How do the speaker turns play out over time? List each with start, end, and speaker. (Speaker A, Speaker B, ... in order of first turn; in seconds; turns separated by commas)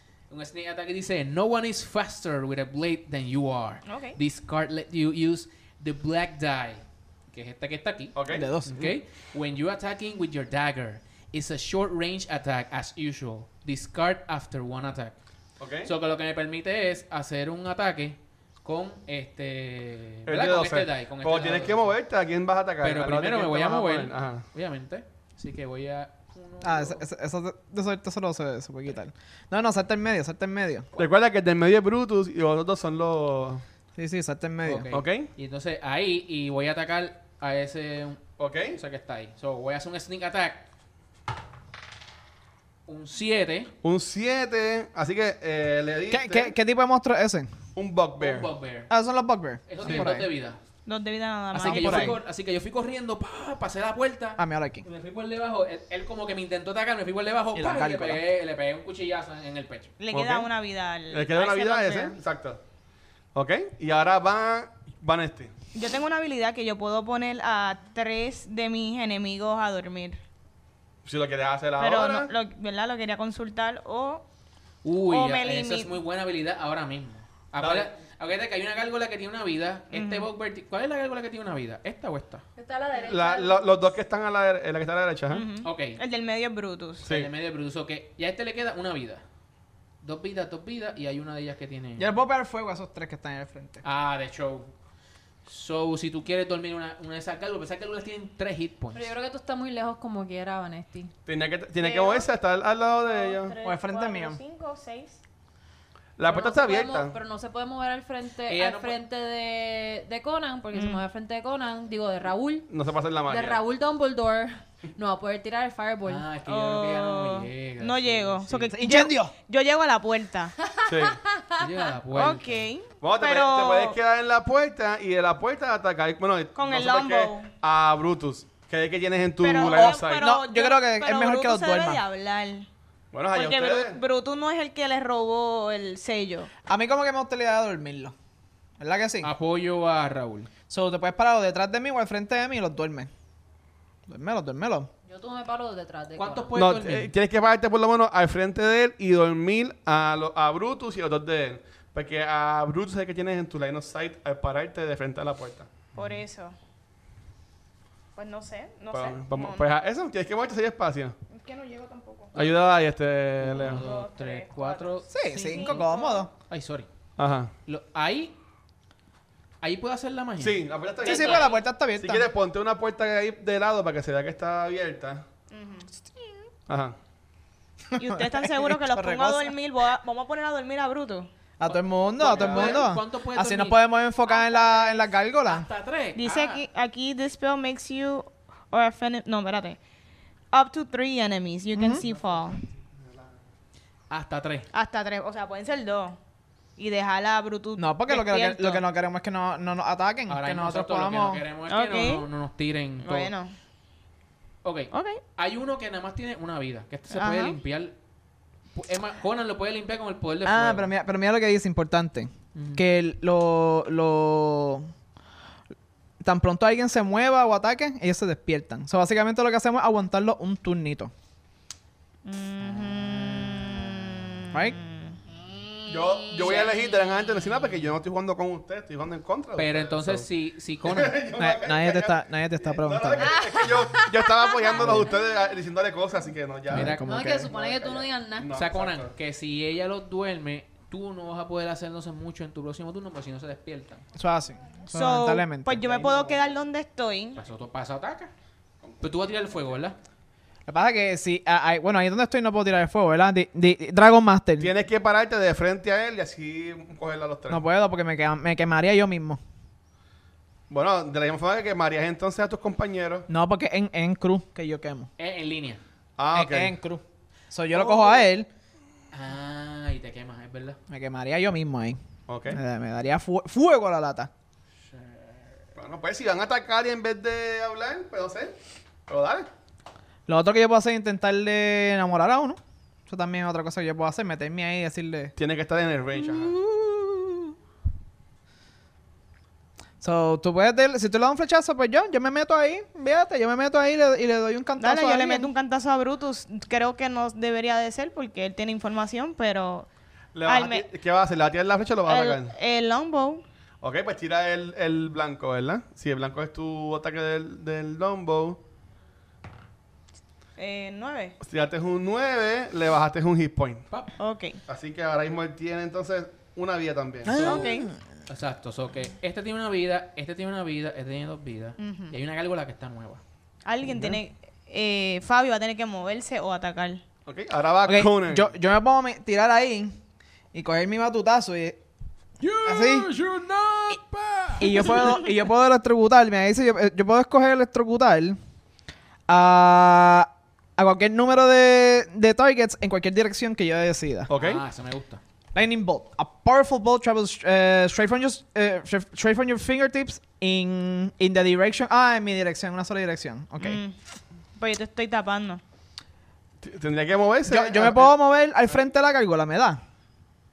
Speaker A: 0.3-15.2, Speaker B: 3.9-4.2, Speaker C: 8.2-8.9, Speaker D: 8.3-8.7, Speaker C: 15.6-15.9, Speaker A: 15.8-21.9, Speaker C: 20.3-24.4, Speaker A: 22.8-27.0, Speaker D: 26.6-30.9, Speaker C: 31.0-33.6, Speaker D: 34.0-35.0, Speaker A: 34.6-40.7, Speaker C: 34.9-35.3, Speaker C: 38.4-38.8, Speaker A: 42.9-43.7, Speaker C: 43.8-46.5, Speaker D: 46.1-47.5, Speaker C: 47.8-48.5, Speaker A: 48.2-48.9, Speaker D: 48.9-50.3, Speaker A: 49.7-50.6, Speaker C: 49.8-50.1, Speaker B: 50.9-52.2, Speaker D: 51.5-52.2, Speaker A: 51.5-59.9, Speaker D: 54.4-54.9, Speaker D: 57.5-58.2, Speaker B: 60.0-62.2, Speaker C: 60.1-60.5, Speaker C: 61.1-62.6, Speaker C: 63.4-65.5, Speaker B: 65.8-70.2, Speaker C: 71.0-72.3, Speaker B: 71.8-74.2, Speaker A: 74.8-82.4, Speaker B: 75.0-76.0, Speaker C: 77.6-77.9, Speaker B: 79.9-80.3, Speaker E: 82.6-83.9, Speaker C: 83.0-85.5, Speaker B: 85.3-87.1, Speaker A: 85.6-86.0, Speaker C: 87.0-87.3, Speaker A: 87.1-89.2, Speaker A: 90.0-92.2, Speaker D: 92.0-93.8, Speaker A: 93.8-94.7, Speaker A: 95.5-99.1, Speaker E: 98.9-101.1, Speaker C: 101.3-103.5, Speaker B: 101.8-102.3, Speaker B: 103.0-105.2, Speaker D: 103.6-104.4, Speaker C: 106.2-107.1, Speaker E: 106.3-112.7, Speaker A: 108.5-109.0, Speaker B: 110.7-111.0, Speaker C: 112.7-113.6, Speaker E: 113.3-116.3, Speaker A: 116.1-118.7, Speaker B: 116.5-120.5, Speaker D: 118.8-119.3, Speaker E: 120.6-121.9, Speaker C: 120.9-121.2, Speaker A: 121.6-122.7, Speaker B: 122.1-124.0, Speaker C: 123.0-130.2, Speaker B: 126.5-127.5, Speaker B: 129.4-132.7, Speaker D: 129.6-132.0, Speaker C: 133.1-134.0, Speaker B: 133.3-136.5, Speaker D: 136.7-138.1, Speaker D: 138.8-139.3, Speaker A: 139.2-140.5, Speaker D: 140.7-143.1, Speaker D: 144.1-144.9, Speaker E: 145.1-146.5, Speaker A: 146.2-147.1, Speaker C: 146.6-155.7, Speaker A: 155.9-156.2, Speaker B: 156.0-156.6, Speaker B: 158.2-159.7, Speaker C: 158.9-161.2, Speaker B: 161.3-162.3, Speaker A: 162.3-162.6, Speaker C: 162.3-163.8, Speaker A: 163.4-165.9, Speaker B: 163.6-166.3, Speaker D: 165.1-166.3, Speaker A: 166.4-166.9, Speaker C: 167.2-167.5, Speaker A: 167.7-168.3, Speaker A: 169.6-170.7, Speaker C: 170.4-175.2, Speaker D: 171.0-172.3, Speaker B: 171.1-171.6, Speaker B: 175.5-176.4, Speaker C: 176.7-177.0, Speaker D: 177.9-179.6, Speaker B: 178.0-181.3, Speaker D: 181.6-185.7, Speaker A: 181.7-186.6, Speaker C: 182.2-182.9, Speaker B: 186.2-189.8, Speaker B: 190.5-192.6, Speaker D: 191.8-192.0, Speaker A: 194.1-194.7, Speaker B: 194.7-196.2, Speaker B: 196.8-198.8, Speaker D: 197.8-201.4, Speaker A: 200.3-203.3, Speaker B: 201.7-202.3, Speaker B: 203.0-203.6, Speaker A: 204.6-207.9, Speaker B: 204.9-205.2, Speaker B: 207.1-207.6, Speaker A: 208.7-210.9, Speaker D: 210.4-214.9, Speaker A: 212.6-212.8, Speaker D: 216.2-221.1, Speaker B: 222.2-225.2, Speaker C: 225.9-230.3, Speaker A: 226.3-226.8, Speaker A: 229.6-231.2, Speaker C: 230.8-239.1, Speaker D: 231.4-233.4, Speaker E: 233.2-234.3, Speaker D: 234.8-235.1, Speaker D: 236.7-237.5, Speaker A: 236.7-237.1, Speaker E: 237.1-238.5, Speaker A: 238.5-244.1, Speaker D: 244.2-245.9, Speaker B: 244.9-247.4, Speaker C: 245.8-246.6, Speaker A: 247.4-248.3, Speaker A: 249.0-250.0, Speaker D: 250.7-254.7, Speaker C: 254.6-257.6, Speaker D: 257.5-259.4, Speaker C: 260.7-263.3, Speaker D: 263.3-265.1, Speaker A: 265.2-265.8, Speaker C: 266.2-266.8, Speaker D: 266.3-268.5, Speaker A: 267.8-268.2, Speaker A: 269.1-270.8, Speaker D: 270.9-272.0, Speaker C: 272.3-272.6, Speaker D: 272.5-274.3, Speaker A: 274.9-275.4, Speaker C: 275.8-278.6, Speaker C: 279.1-279.5, Speaker D: 280.3-285.3, Speaker C: 285.4-286.6, Speaker D: 286.2-287.5, Speaker D: 290.0-295.5, Speaker B: 294.8-299.9, Speaker C: 300.3-302.5, Speaker B: 300.5-300.9, Speaker B: 302.1-303.4, Speaker C: 303.8-308.6, Speaker B: 310.6-311.4, Speaker C: 311.4-313.9, Speaker B: 314.2-314.6, Speaker C: 314.7-317.4, Speaker D: 317.3-318.0, Speaker A: 317.3-317.7, Speaker B: 317.4-317.9, Speaker A: 318.3-323.2, Speaker B: 321.8-322.1, Speaker B: 323.6-327.0, Speaker D: 323.8-324.2, Speaker C: 327.3-328.6, Speaker D: 327.9-330.0, Speaker D: 330.5-331.8, Speaker A: 332.4-335.1, Speaker D: 332.6-333.1, Speaker D: 334.6-338.4, Speaker D: 339.3-344.3, Speaker C: 344.3-344.6, Speaker A: 344.4-345.2, Speaker D: 345.6-353.8, Speaker B: 353.6-354.0, Speaker B: 354.6-355.6, Speaker C: 356.6-358.1, Speaker D: 357.5-359.8